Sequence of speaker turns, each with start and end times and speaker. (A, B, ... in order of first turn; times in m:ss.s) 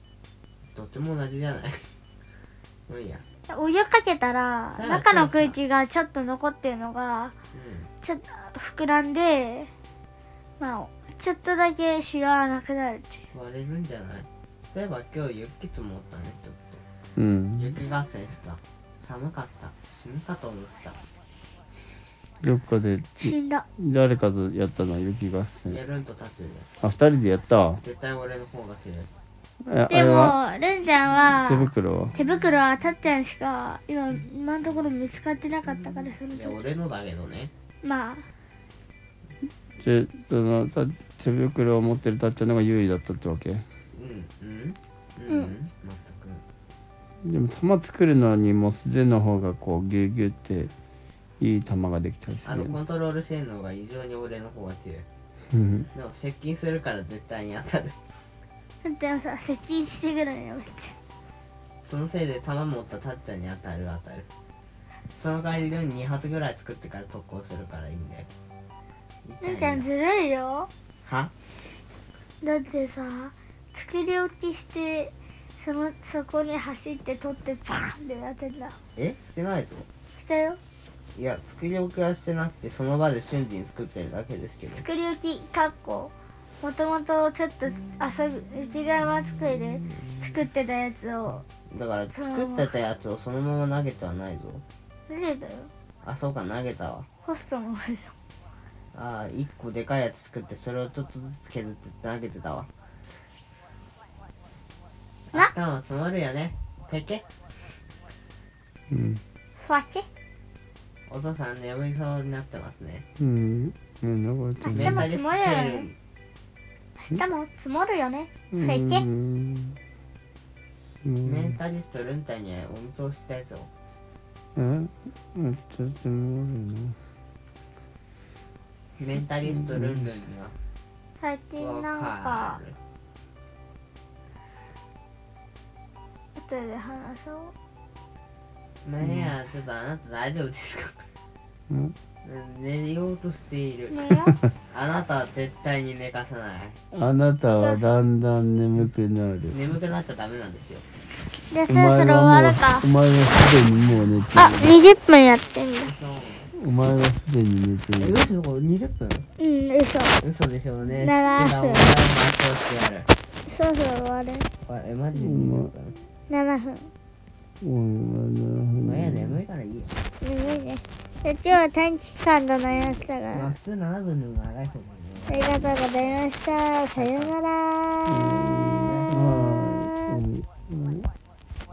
0:00.7-0:01.8 A
0:02.9-0:03.2 A
0:03.5-0:07.3 B
0:04.7-0:05.6 A
0:07.5-0:07.9 A
0:08.0-0:09.7 B
0:10.6-0:13.2 B
0:13.3-0:16.8 A
0:17.2-0:17.7 C
0:17.6-0:21.0 A
0:22.4-0:25.8 C
0:23.2-0:23.6 B
0:25.6-0:26.7 A
0:26.8-0:27.8 C
0:27.8-0:29.1 A
0:29.6-0:30.4 C
0:29.9-0:36.6 B
0:31.3-0:32.2 C
0:36.1-0:37.5 A
0:37.8-0:38.3 B
0:39.8-0:43.6 C
0:43.9-0:46.4 A
0:47.2-0:50.7 C
0:51.4-0:52.7 C
0:52.4-0:55.0 A
0:55.5-0:55.9 C
0:55.9-0:58.0 A
0:58.8-1:00.9 B
1:01.8-1:04.3 A
1:05.2-1:08.3 A
1:09.2-1:09.9 A
1:09.4-1:10.7 B
1:11.0-1:11.3 A
1:12.4-1:18.8 B
1:19.0-1:19.9 A
1:20.1-1:20.6 B
1:21.1-1:24.8 A
1:24.7-1:31.4 B
1:31.7-1:34.6 A
1:32.1-1:32.7 B
1:35.1-1:35.7 B
1:36.0-1:37.1 A
1:37.2-1:38.1 B
1:38.9-1:42.7 A
1:45.3-1:47.2 A
1:48.9-1:49.2 C
1:49.6-1:50.0 B
1:51.1-1:53.0 A
1:53.2-1:55.1 C
1:54.6-1:55.8 B
1:54.7-1:56.0 A
1:57.0-1:59.0 B
1:58.5-1:59.8 C
2:01.0-2:01.6 C
2:01.2-2:03.7 A
2:04.6-2:06.9 C
2:09.0-2:10.5 A
2:11.2-2:12.6 B
2:11.6-2:12.8 A
2:16.3-2:17.5 B
2:18.8-2:21.0 A
2:21.7-2:21.9 C
2:22.2-2:24.1 A
2:23.9-2:24.4 B
2:24.7-2:26.8 A
2:26.9-2:29.6 C
2:27.6-2:27.9 B
2:29.5-2:30.8 A
2:31.5-2:32.9 B
2:31.7-2:34.8 C
2:34.3-2:35.9 B
2:35.8-2:36.5 A
2:36.5-2:38.2 C
2:38.0-2:39.3 A
2:39.4-2:40.2 B
2:40.2-2:43.1 A
2:41.0-2:41.9 B
2:43.4-2:44.5 B
2:44.6-2:46.0 A
2:45.2-2:45.7 C
2:46.3-2:46.9 B
2:47.6-2:49.4 C
2:48.8-2:50.0 A
2:50.2-2:53.5 B
2:53.3-2:56.3 A
2:55.3-2:58.3 B
2:56.9-2:57.3 A
2:58.1-3:01.1 C
2:58.8-2:59.6 A